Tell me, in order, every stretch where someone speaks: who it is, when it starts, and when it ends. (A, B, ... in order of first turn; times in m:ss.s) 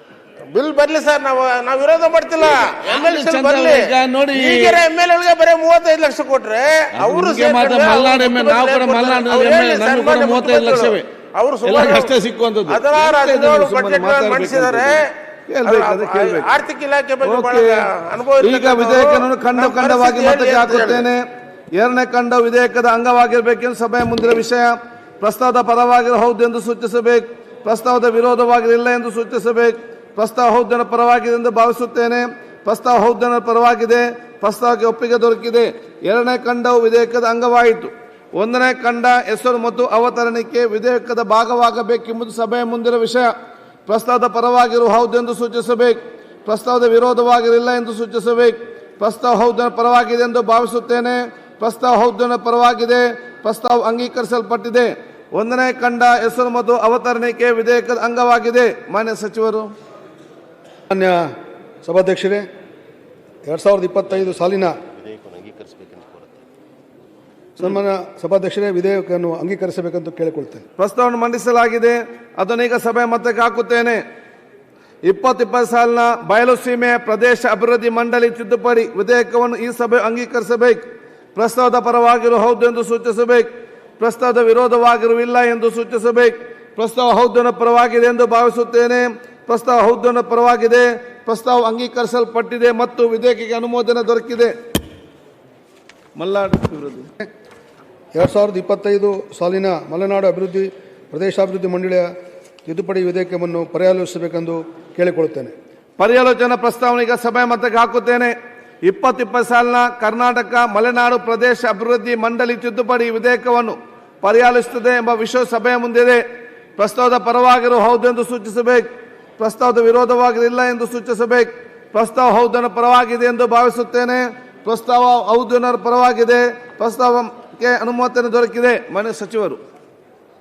0:00.5-0:12.1 A
0:02.6-0:04.8 B
0:07.0-0:11.0 B
0:11.6-0:16.5 B
0:12.7-0:15.1 A
0:15.6-0:21.0 A
0:17.2-0:17.8 B
0:18.4-0:21.2 B
0:21.7-0:43.3 B
0:43.9-0:59.7 B
1:00.9-1:01.2 C
1:01.8-1:02.4 C
1:03.4-1:04.7 C
1:07.6-1:10.6 C
1:10.8-1:14.0 B
1:15.0-1:20.8 B
1:21.3-1:34.5 B
1:36.2-1:37.1 B
1:38.1-1:42.1 C
1:42.6-1:45.5 C
1:46.0-1:56.2 B
1:56.8-1:58.9 B
1:59.4-2:09.6 B